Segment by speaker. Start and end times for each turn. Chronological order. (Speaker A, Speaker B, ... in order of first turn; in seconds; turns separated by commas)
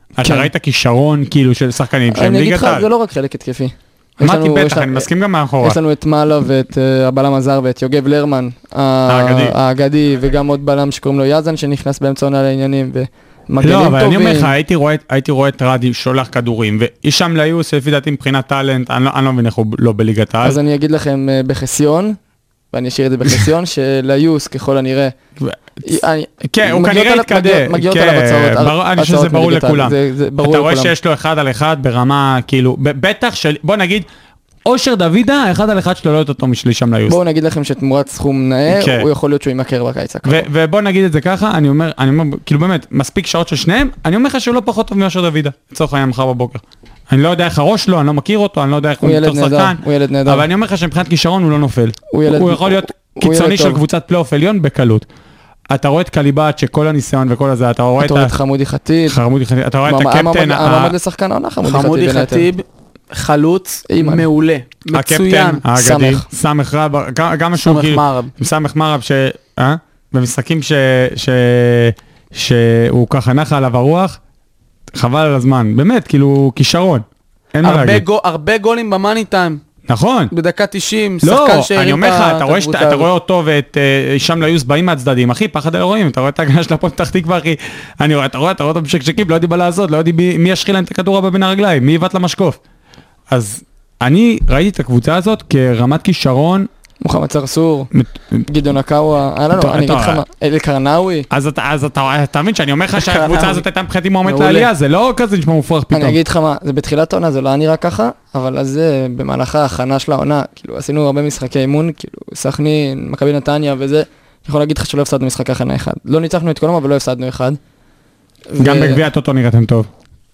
Speaker A: 0.2-2.9, Speaker B: 0.2-0.5, Speaker B: 2.1-5.1, Speaker A: 4.2-5.8, Speaker B: 5.6-14.5, Speaker A: 9.1-9.6, Speaker A: 13.6-20.6, Speaker B: 20.4-22.2, Speaker B: 22.7-25.1, Speaker B: 25.8-30.9, Speaker A: 26.5-34.1, Speaker A: 34.6-37.2, Speaker B: 37.1-40.5, Speaker A: 38.7-39.1, Speaker A: 40.2-55.0, Speaker B: 49.0-50.5, Speaker B: 52.1-53.8, Speaker A: 55.7-58.4, Speaker B: 58.0-59.2, Speaker A: 59.1-61.0, Speaker B: 59.9-62.5, Speaker C: 61.6-65.6, Speaker B: 63.9-64.2, Speaker A: 64.9-74.2, Speaker B: 65.7-66.3, Speaker C: 67.6-68.3, Speaker A: 74.9-78.0, Speaker C: 77.6-79.6, Speaker A: 79.9-80.3, Speaker C: 80.3-83.1, Speaker A: 81.2-92.6, Speaker A: 93.3-96.7, Speaker B: 97.0-97.9, Speaker A: 97.9-98.5, Speaker B: 98.5-101.3, Speaker A: 99.5-100.2, Speaker A: 101.3-106.2, Speaker C: 103.0-103.6, Speaker C: 104.3-104.6, Speaker B: 105.9-117.6, Speaker B: 118.5-119.0, Speaker A: 118.6-119.9